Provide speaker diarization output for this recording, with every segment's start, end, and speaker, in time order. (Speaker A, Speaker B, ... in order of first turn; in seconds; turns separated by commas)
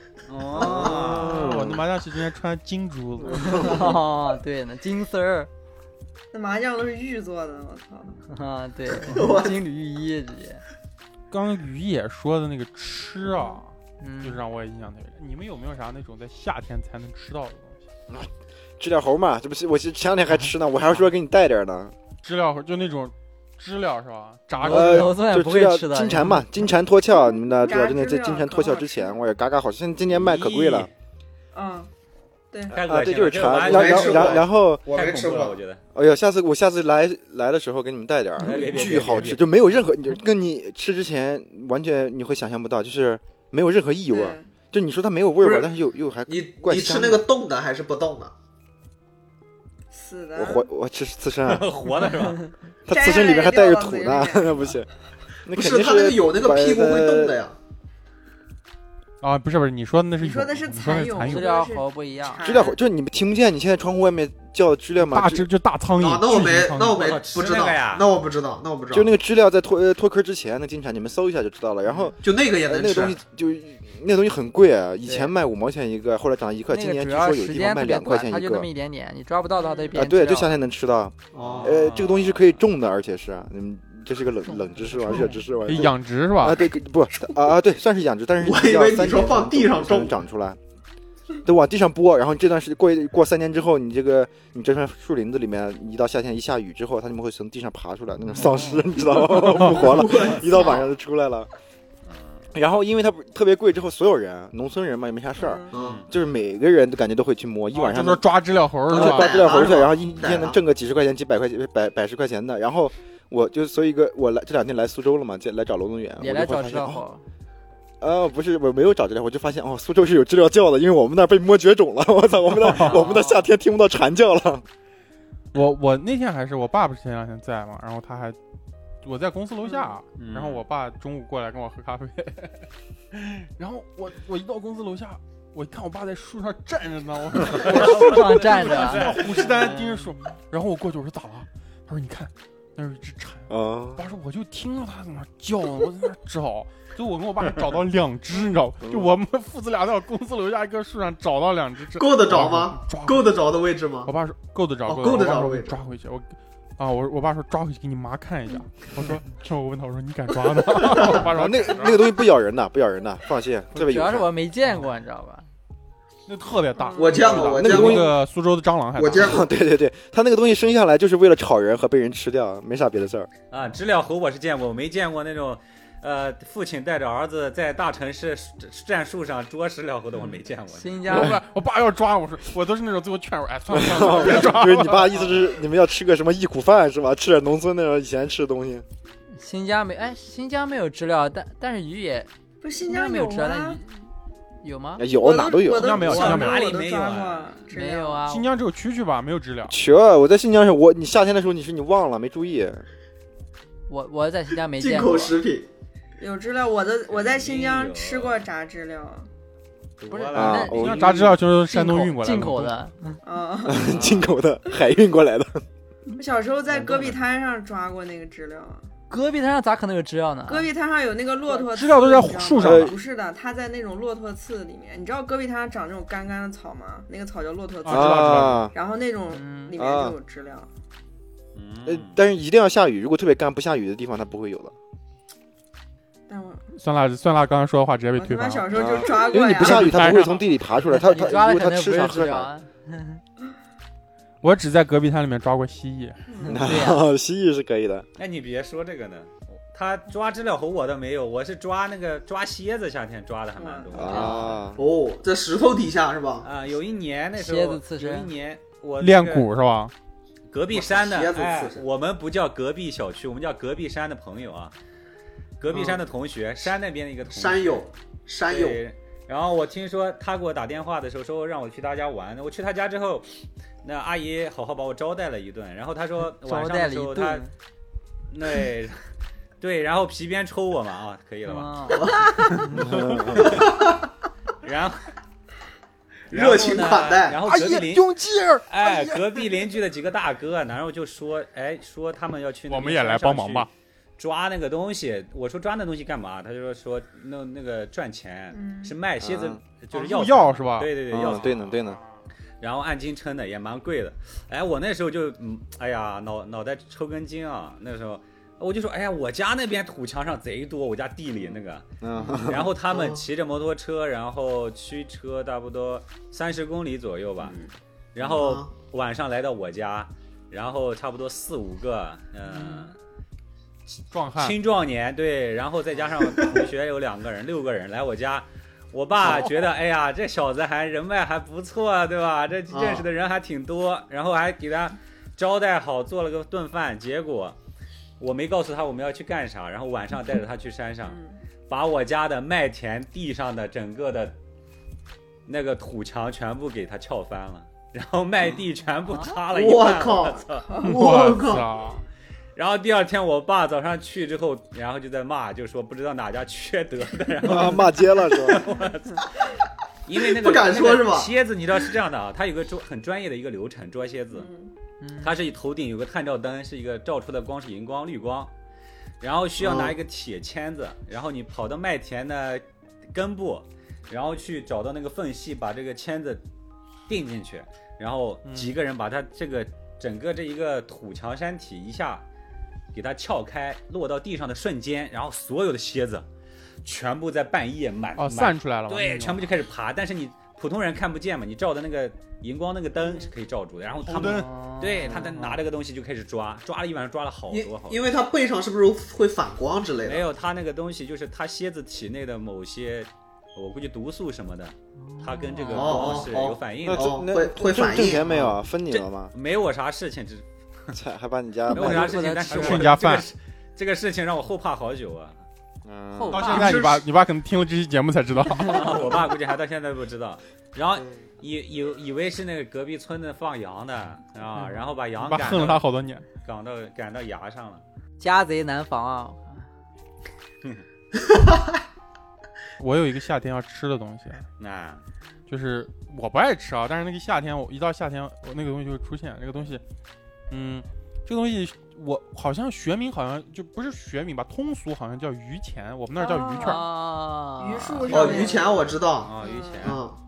Speaker A: 0.3-1.6, Speaker B: 0.5-1.4, Speaker C: 0.6-1.9, Speaker D: 1.2-3.9, Speaker E: 3.4-5.5, Speaker F: 6.3-8.2, Speaker E: 8.3-10.6, Speaker B: 9.0-9.6, Speaker D: 11.3-17.8, Speaker F: 13.3-13.6, Speaker E: 14.0-14.4, Speaker C: 18.1-21.9, Speaker D: 22.2-25.1, Speaker E: 24.6-26.4, Speaker C: 24.6-30.9, Speaker F: 27.6-29.2, Speaker A: 30.1-30.9, Speaker F: 31.5-31.9, Speaker F: 32.5-32.9, Speaker A: 32.7-35.8, Speaker C: 32.8-34.9, Speaker B: 33.5-35.6, Speaker C: 35.9-47.2, Speaker A: 38.4-39.5, Speaker B: 38.7-39.3, Speaker F: 44.1-44.5, Speaker B: 45.4-45.7, Speaker B: 46.3-48.3, Speaker F: 49.9-50.7, Speaker C: 50.4-51.7, Speaker A: 51.5-52.5, Speaker C: 52.9-54.9, Speaker F: 52.9-54.7, Speaker C: 55.5-57.4, Speaker B: 55.5-57.6, Speaker D: 59.2-61.5, Speaker F: 60.2-62.8, Speaker E: 61.2-62.5, Speaker C: 62.4-65.5, Speaker D: 65.1-67.2, Speaker B: 66.0-69.1, Speaker A: 66.9-68.1, Speaker C: 68.9-78.7, Speaker B: 72.2-73.2, Speaker E: 75.0-75.3, Speaker E: 76.7-80.5, Speaker F: 79.5-80.1, Speaker C: 80.0-90.6, Speaker B: 81.3-81.8, Speaker A: 81.4-82.5, Speaker E: 84.7-85.5, Speaker D: 85.1-86.6, Speaker B: 88.4-90.2, Speaker C: 91.5-101.5, Speaker D: 98.4-98.8, Speaker B: 99.2-100.8, Speaker D: 99.4-99.9, Speaker F: 100.5-100.8, Speaker A: 102.0-102.5, Speaker C: 102.5-108.2, Speaker F: 105.4-105.7, Speaker B: 105.7-106.0, Speaker A: 105.7-106.1, Speaker D: 107.7-109.5, Speaker B: 108.9-110.6, Speaker C: 108.9-117.0, Speaker E: 116.2-117.2, Speaker C: 118.0-124.6, Speaker D: 122.6-123.0, Speaker E: 122.8-123.5, Speaker D: 125.5-128.4, Speaker D: 129.0-153.3, Speaker F: 129.6-129.9, Speaker A: 130.1-130.6, Speaker A: 137.5-139.6, Speaker E: 137.6-140.1, Speaker C: 143.5-144.1, Speaker C: 148.8-149.1, Speaker B: 152.0-154.1, Speaker D: 154.1-162.1, Speaker B: 154.8-155.8, Speaker C: 161.2-164.3, Speaker E: 163.7-165.5, Speaker D: 166.3-169.3, Speaker F: 166.7-167.3, Speaker B: 167.0-168.2, Speaker C: 167.5-168.1, Speaker B: 168.9-169.4, Speaker C: 169.1-173.3, Speaker A: 173.5-181.1, Speaker E: 180.7-181.4, Speaker D: 181.1-185.3, Speaker C: 183.7-188.9, Speaker E: 189.3-192.3, Speaker F: 192.6-193.8, Speaker E: 192.8-194.1, Speaker E: 194.6-195.1, Speaker C: 195.0-196.0, Speaker F: 195.1-198.2, Speaker D: 195.7-196.6, Speaker A: 196.0-197.6, Speaker E: 197.7-198.5, Speaker D: 198.3-199.8, Speaker C: 199.7-202.8, Speaker E: 203.9-205.4, Speaker B: 204.8-205.7, Speaker F: 206.2-209.3, Speaker A: 207.1-208.4, Speaker A: 210.0-211.3, Speaker E: 210.1-213.2, Speaker C: 210.3-211.1, Speaker D: 210.7-212.8, Speaker F: 213.2-214.1, Speaker C: 213.6-215.6, Speaker F: 216.2-218.9, Speaker A: 216.7-217.2, Speaker E: 219.1-220.7, Speaker F: 220.4-230.7, Speaker D: 221.6-222.9, Speaker C: 222.6-222.9, Speaker D: 227.8-228.7, Speaker C: 227.9-228.7, Speaker E: 229.3-229.7, Speaker C: 229.8-230.2, Speaker A: 231.6-232.2, Speaker C: 231.9-234.7, Speaker F: 236.3-236.6, Speaker D: 236.7-240.4, Speaker F: 238.1-240.2, Speaker C: 238.7-242.5, Speaker E: 240.9-243.2, Speaker D: 244.4-246.2, Speaker F: 246.3-246.6, Speaker E: 246.4-247.0, Speaker C: 246.5-248.1, Speaker A: 248.2-254.5, Speaker F: 253.6-254.4, Speaker C: 253.9-254.9, Speaker E: 254.1-254.6, Speaker B: 254.8-256.5, Speaker A: 256.4-259.5, Speaker E: 257.4-258.3, Speaker D: 259.0-259.9, Speaker A: 260.5-264.7, Speaker B: 260.7-261.8, Speaker A: 265.6-267.8, Speaker B: 265.7-266.0, Speaker B: 267.3-268.8, Speaker A: 268.5-273.3, Speaker A: 273.8-277.4, Speaker E: 276.2-277.5, Speaker A: 278.3-279.0, Speaker A: 279.6-282.9, Speaker E: 281.4-282.7, Speaker B: 281.9-282.4, Speaker C: 282.7-283.6, Speaker B: 283.3-284.1, Speaker A: 283.4-283.6, Speaker A: 284.6-285.1, Speaker B: 286.3-287.4, Speaker A: 286.3-301.7, Speaker D: 287.4-289.4, Speaker D: 292.7-293.7, Speaker F: 298.5-298.9, Speaker C: 299.2-299.6, Speaker D: 299.9-302.2, Speaker C: 301.1-302.0, Speaker A: 302.6-311.9, Speaker C: 312.0-312.7, Speaker A: 312.4-317.6, Speaker B: 312.9-313.2, Speaker F: 317.4-317.7, Speaker A: 318.1-322.9, Speaker B: 318.2-318.7, Speaker D: 324.1-324.6, Speaker A: 324.4-337.6, Speaker B: 326.3-326.6, Speaker D: 329.2-329.5, Speaker B: 332.7-333.1, Speaker A: 338.2-344.4, Speaker F: 341.0-341.4, Speaker A: 345.4-350.7, Speaker B: 349.5-351.7, Speaker F: 350.7-351.0, Speaker D: 350.8-352.0, Speaker A: 352.6-359.3, Speaker C: 357.4-358.6, Speaker A: 360.1-364.5, Speaker B: 360.3-361.3, Speaker F: 364.3-364.7, Speaker E: 365.0-365.3, Speaker A: 365.2-368.5, Speaker A: 369.2-376.4, Speaker B: 369.6-369.9, Speaker A: 377.1-382.2, Speaker D: 378.4-378.7, Speaker A: 382.9-386.3, Speaker A: 386.8-398.0, Speaker D: 388.2-389.4, Speaker F: 393.0-393.3, Speaker D: 394.1-394.5, Speaker E: 394.1-395.6, Speaker B: 397.5-400.3, Speaker A: 400.1-407.2, Speaker E: 405.0-406.3, Speaker B: 405.7-408.6, Speaker C: 406.9-409.3, Speaker A: 408.9-410.9, Speaker C: 410.9-412.1, Speaker A: 411.7-415.4, Speaker E: 411.7-412.9, Speaker D: 412.5-413.3, Speaker C: 415.9-416.7, Speaker E: 416.1-416.9, Speaker D: 416.3-419.2, Speaker B: 416.5-417.1, Speaker A: 418.6-425.8, Speaker E: 418.6-419.1, Speaker C: 420.9-421.2, Speaker D: 425.2-426.3, Speaker A: 426.4-427.8, Speaker E: 428.2-429.7, Speaker B: 431.3-431.6, Speaker D: 432.8-434.4, Speaker A: 434.6-435.0, Speaker D: 435.5-439.8, Speaker D: 440.5-446.8, Speaker F: 446.2-446.9, Speaker E: 446.6-448.6, Speaker F: 447.6-450.0, Speaker B: 448.1-450.2, Speaker A: 448.6-450.0